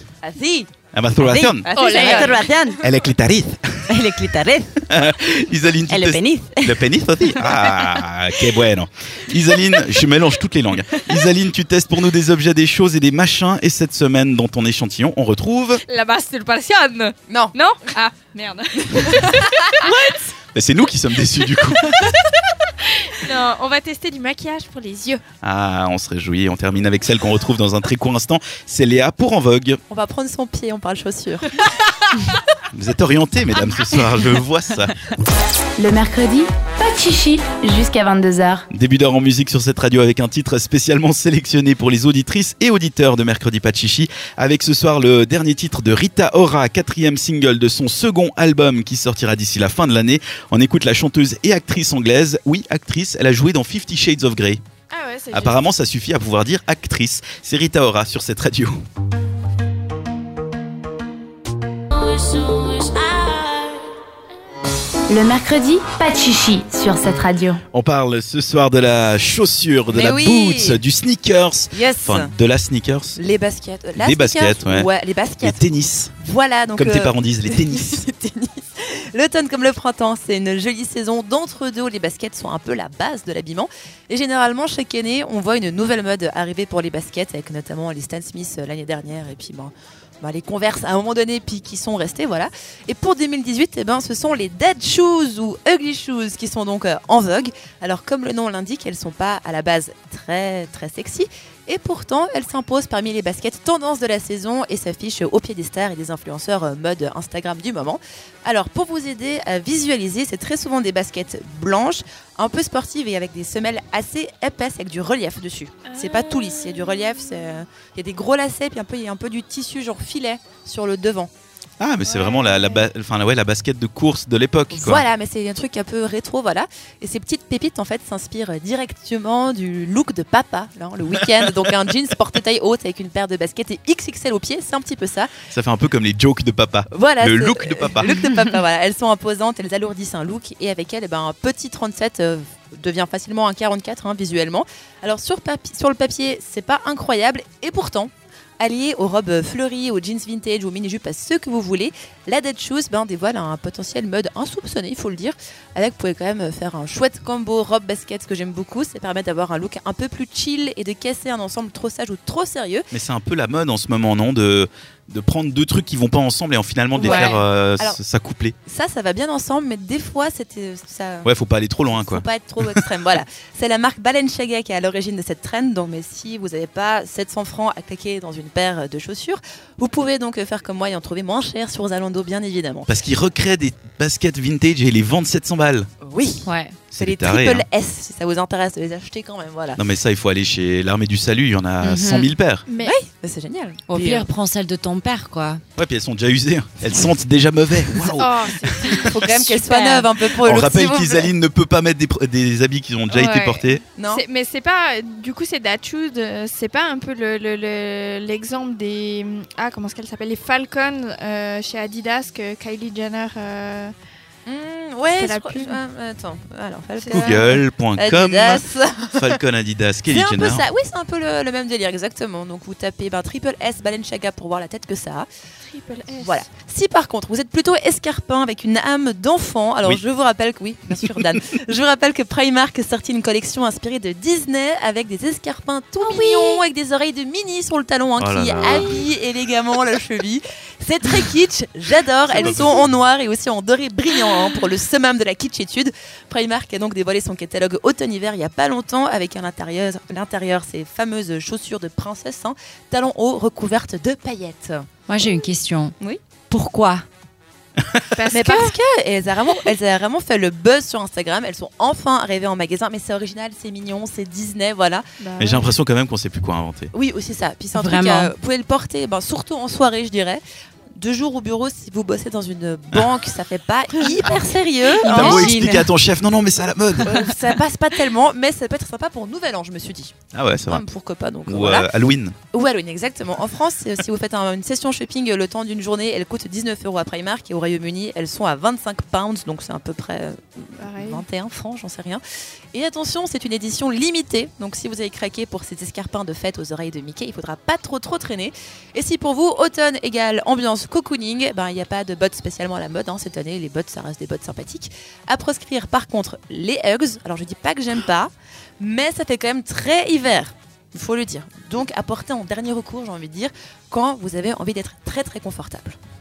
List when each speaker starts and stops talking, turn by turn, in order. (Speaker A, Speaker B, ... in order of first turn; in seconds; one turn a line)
Speaker A: 0.2-0.7
Speaker B: 0.9-1.7
Speaker C: 1.2-2.8
Speaker A: 1.6-2.5
Speaker D: 1.8-2.5
Speaker B: 2.8-4.0
Speaker C: 3.9-4.8
Speaker B: 4.9-15.8
Speaker C: 5.9-8.0
Speaker D: 15.9-20.3
Speaker A: 17.3-17.6
Speaker B: 20.5-22.1
Speaker D: 21.8-25.2
Speaker B: 25.4-29.8
Speaker A: 29.9-31.5
Speaker B: 32.7-35.0
Speaker E: 35.8-38.7
Speaker B: 38.7-54.6
Speaker D: 54.9-55.6
Speaker B: 55.3-58.8
Speaker E: 65.1-67.6
Speaker B: 67.7-73.2
Speaker A: 69.9-70.8
Speaker A: 71.7-72.3
Speaker A: 73.2-121.3
Speaker B: 74.0-74.9
Speaker B: 75.4-76.1
Speaker B: 76.8-78.0
Speaker D: 115.9-117.2
Speaker B: 121.8-125.0
Speaker D: 122.1-122.8
Speaker A: 124.7-135.3
Speaker B: 135.5-138.1
Speaker A: 136.9-162.9
Speaker B: 162.9-168.6
Speaker A: 166.9-168.0
Speaker C: 167.1-167.3
Speaker A: 168.7-171.3
Speaker B: 171.2-172.8
Speaker A: 171.9-182.9
Speaker B: 182.9-185.9
Speaker A: 186.0-186.5
Speaker C: 186.4-186.8
Speaker B: 186.9-187.6
Speaker A: 187.0-189.8
Speaker B: 189.8-192.6
Speaker C: 191.8-192.3
Speaker D: 192.7-193.1
Speaker A: 192.8-194.3
Speaker C: 193.9-195.6
Speaker B: 195.8-199.2
Speaker D: 198.2-200.1
Speaker A: 199.0-201.3
Speaker B: 200.4-203.8
Speaker D: 203.1-213.9
Speaker A: 203.9-204.2
Speaker A: 214.5-219.4
Speaker D: 215.2-215.8
Speaker D: 217.0-217.6
Speaker B: 217.1-218.6
Speaker B: 219.2-220.6
Speaker A: 220.1-225.3
Speaker D: 225.7-226.4
Speaker A: 226.2-254.9
Speaker D: 236.0-236.6
Speaker B: 238.2-239.0
Speaker D: 238.6-239.0
Speaker D: 242.3-242.7
Speaker B: 242.3-242.9
Speaker C: 255.1-255.9
Speaker C: 256.5-257.1
Speaker B: 257.8-258.1
Speaker D: 258.1-258.8
Speaker A: 258.3-265.1
Speaker D: 265.2-265.7
Speaker B: 265.4-266.9
Speaker A: 266.9-270.4
Speaker C: 267.8-268.3
Speaker A: 270.9-275.5
Speaker C: 275.0-275.9
Speaker B: 275.1-277.1
Speaker A: 277.1-281.9
Speaker B: 280.3-280.8
Speaker B: 281.5-282.4
Speaker A: 282.5-292.2
Speaker D: 290.8-291.2
Speaker A: 292.7-316.0